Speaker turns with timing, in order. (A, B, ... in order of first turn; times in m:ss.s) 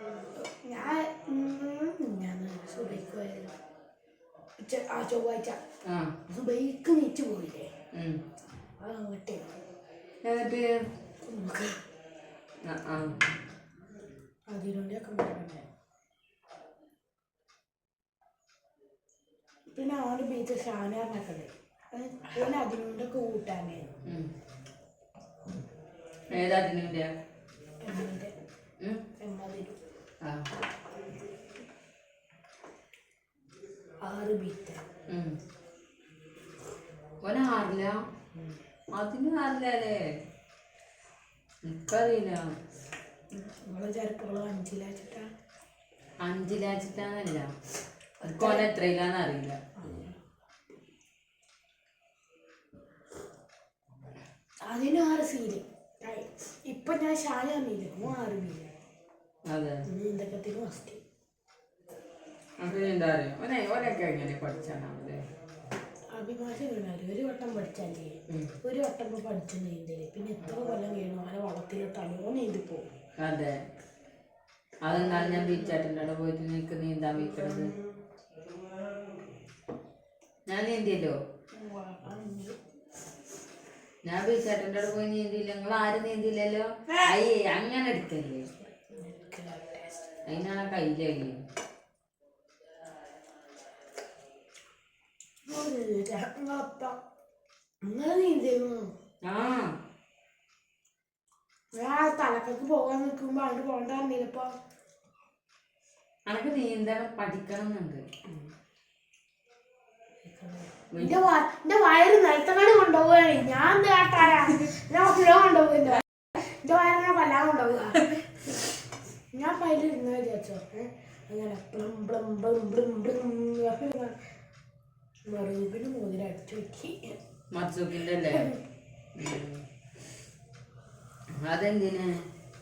0:00.4-0:03.5 A
0:04.6-0:05.6 A
0:05.8-0:06.2 B
0:06.3-0:07.7 A
0:07.9-0:08.2 B
0:08.8-0:09.5 A
0:10.2-0:10.8 B
0:11.2-0:11.8 A
0:12.6-0:13.3 B
0:14.5-0:15.7 A
0:19.8-0:23.9 A
0:24.0-0:24.3 B
0:26.3-0:27.1 B
0:27.8-0:28.3 A
0:29.2-0:29.8 A
0:30.2-0:30.5 B
0:34.0-0:34.9 A
0:35.1-0:35.4 B
0:37.2-0:38.0 B
0:38.9-0:40.0 B
0:41.6-0:42.5 B
0:43.3-0:45.3 A
0:46.2-0:47.5 B
0:48.2-0:49.6 B
0:48.3-0:48.7 A
0:49.8-0:50.2 A
0:54.7-0:58.8 A
0:59.5-0:59.9 B
0:59.9-1:01.0 A
1:02.6-1:05.2 B
1:06.2-1:12.9 A
1:08.3-1:08.6 B
1:13.2-1:13.6 B
1:14.8-1:17.7 B
1:14.9-1:15.7 A
1:20.5-1:21.2 B
1:21.6-1:22.6 A
1:24.0-1:28.5 B
1:28.6-1:30.0 A
1:30.3-1:31.4 B
1:35.5-1:37.0 A
1:37.8-1:38.9 A
1:39.2-1:39.7 B
1:41.8-1:44.5 A
1:46.3-1:48.0 B
1:50.2-1:58.7 A
1:50.9-1:51.2 B
1:59.3-2:04.2 A
2:05.3-2:07.2 A
2:07.5-2:08.5 B
2:08.3-2:08.6 A
2:09.2-2:09.7 B
2:11.5-2:12.3 B